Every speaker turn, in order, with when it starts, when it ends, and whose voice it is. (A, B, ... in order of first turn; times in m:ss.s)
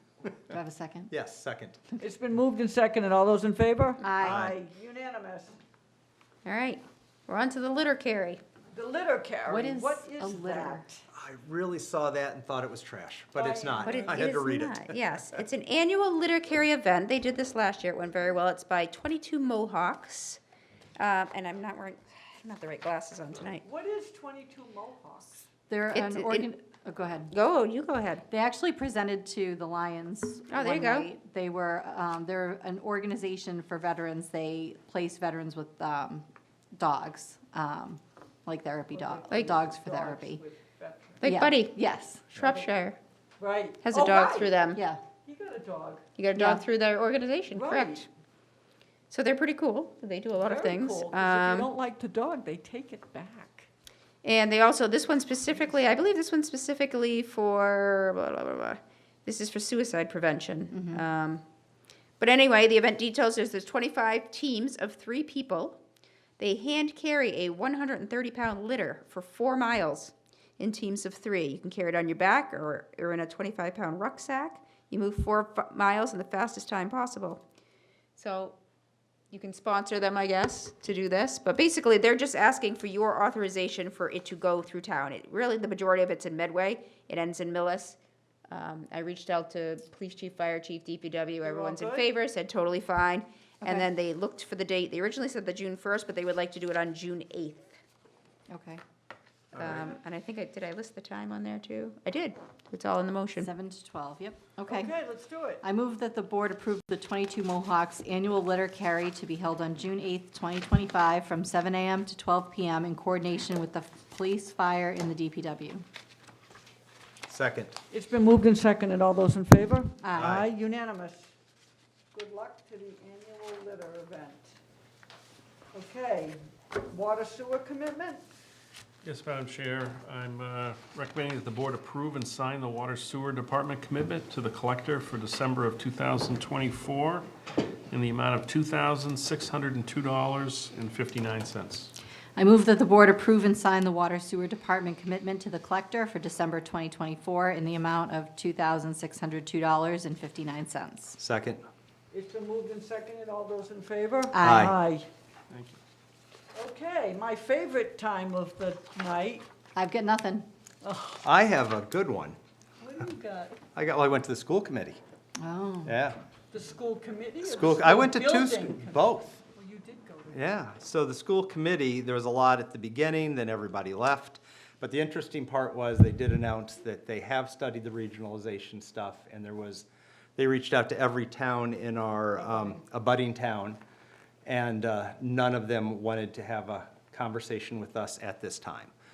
0:00.5-0:01.1 A
0:01.1-0:01.8 B
0:02.0-0:05.6 C
0:04.0-0:04.5 A
0:04.2-0:04.6 B
0:06.4-0:08.4 D
0:08.7-0:11.0 C
0:09.5-0:10.9 A
0:11.1-0:14.9 B
0:13.3-0:14.2 C
0:13.8-0:20.4 D
0:21.0-0:23.6 D
0:23.6-0:25.5 C
0:25.7-0:27.3 A
0:25.9-0:26.5 D
0:27.3-0:28.2 D
0:28.3-0:40.4 A
0:30.5-0:31.1 D
0:38.9-0:41.3 C
0:41.2-0:41.8 D
0:41.2-0:42.3 A
0:42.3-0:43.0 D
0:42.4-0:42.7 C
0:43.4-0:46.1 C
0:43.8-0:44.8 D
0:44.7-0:45.0 A
0:46.2-0:48.1 D
0:46.3-0:46.6 A
0:47.5-0:48.1 C
0:49.1-0:51.7 D
0:50.3-0:53.7 C
0:54.2-1:01.4 D
1:00.7-1:01.0 A
1:02.2-1:05.8 D
1:06.4-1:17.4 D
1:18.2-1:18.6 D
1:19.3-1:28.0 D
1:28.5-1:37.7 D
1:31.4-1:32.2 C
1:38.5-1:38.8 A
1:39.5-1:43.5 D
1:43.4-1:44.9 A
1:44.7-1:45.6 C
1:45.6-1:55.8 A
1:57.2-1:57.8 B
1:57.9-2:01.3 C
2:00.0-2:00.4 A
2:00.1-2:00.5 B
2:02.1-2:04.6 C
2:05.7-2:08.3 C
2:09.0-2:17.3 E
2:17.9-2:21.9 E
2:22.4-2:31.2 A
2:31.2-2:31.6 B
2:32.1-2:35.1 C
2:34.3-2:34.8 A
2:34.4-2:34.7 B
2:35.5-2:35.8 E
2:36.5-2:39.4 C
2:39.7-2:40.5 A
2:40.8-2:41.2 C
2:41.2-2:42.4 B
2:42.8-2:43.6 C
2:43.7-2:45.0 B
2:45.4-2:45.9 A
2:45.8-2:46.2 B
2:46.5-2:50.5 C
2:47.4-2:49.4 B
2:50.3-3:03.8 B
3:04.4-3:08.9 B